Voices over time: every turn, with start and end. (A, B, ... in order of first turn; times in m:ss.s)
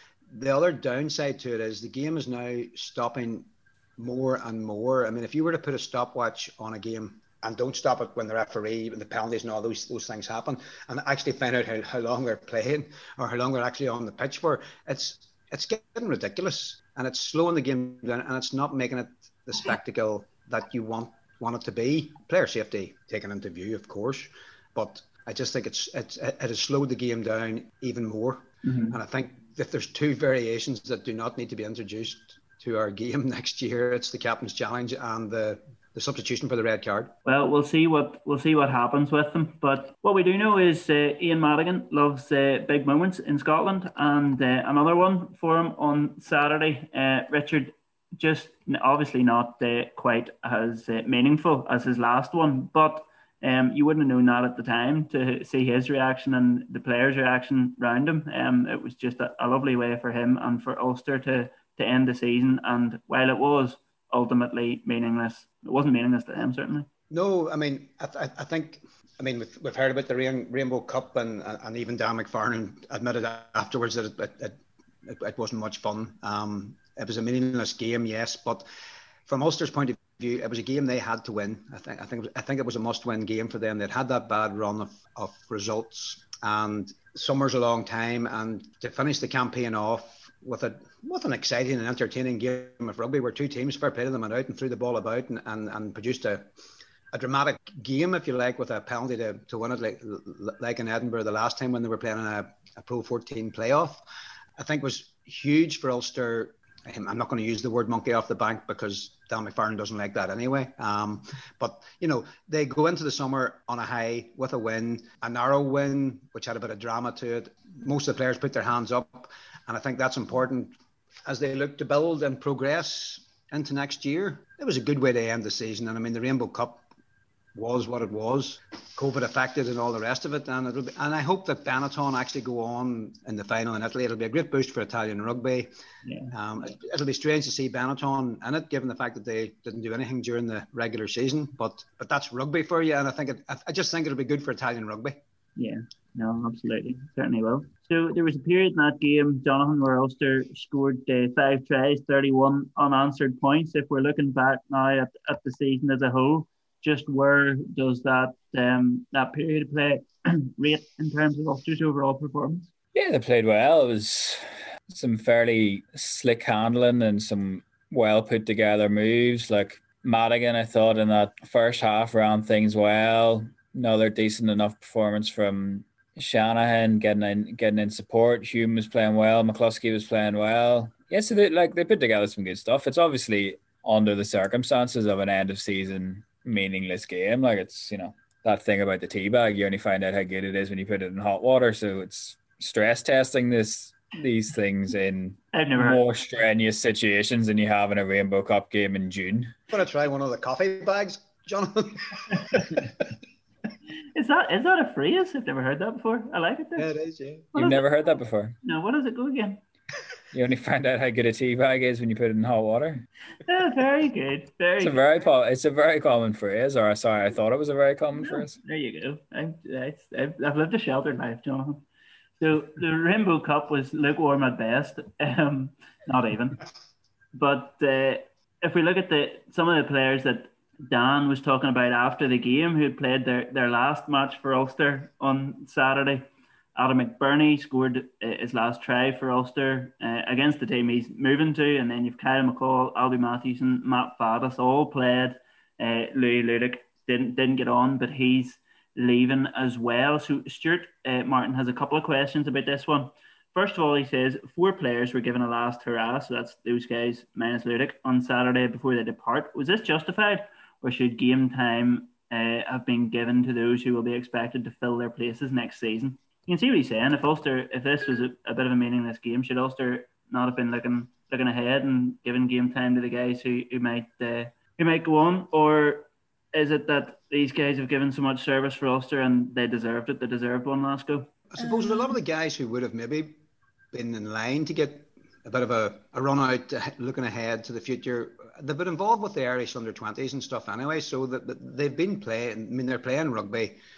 0:00.3-0:37.1 A
0:28.6-0:29.0 B
0:37.2-1:06.9 B
1:07.1-1:18.6 A
1:19.2-1:36.5 A
1:37.1-1:44.0 A
1:44.6-2:00.7 A
2:01.2-2:06.9 A
2:07.5-2:15.7 A
2:16.0-2:16.3 B
2:16.3-2:25.2 A
2:25.6-2:42.7 B
2:42.9-3:19.5 C
3:15.5-3:16.0 B
3:19.7-3:22.9 A
3:24.1-3:26.9 B
3:26.8-3:27.5 A
3:27.5-3:28.6 C
3:27.6-3:27.8 B
3:28.6-3:29.6 B
3:30.3-3:33.1 C
3:33.4-3:35.0 B
3:34.8-3:38.6 C
3:38.2-3:41.8 B
3:42.4-3:46.6 B
3:47.3-3:56.2 B
3:56.8-4:41.3 B
4:41.5-4:43.4 A
4:43.9-4:53.8 A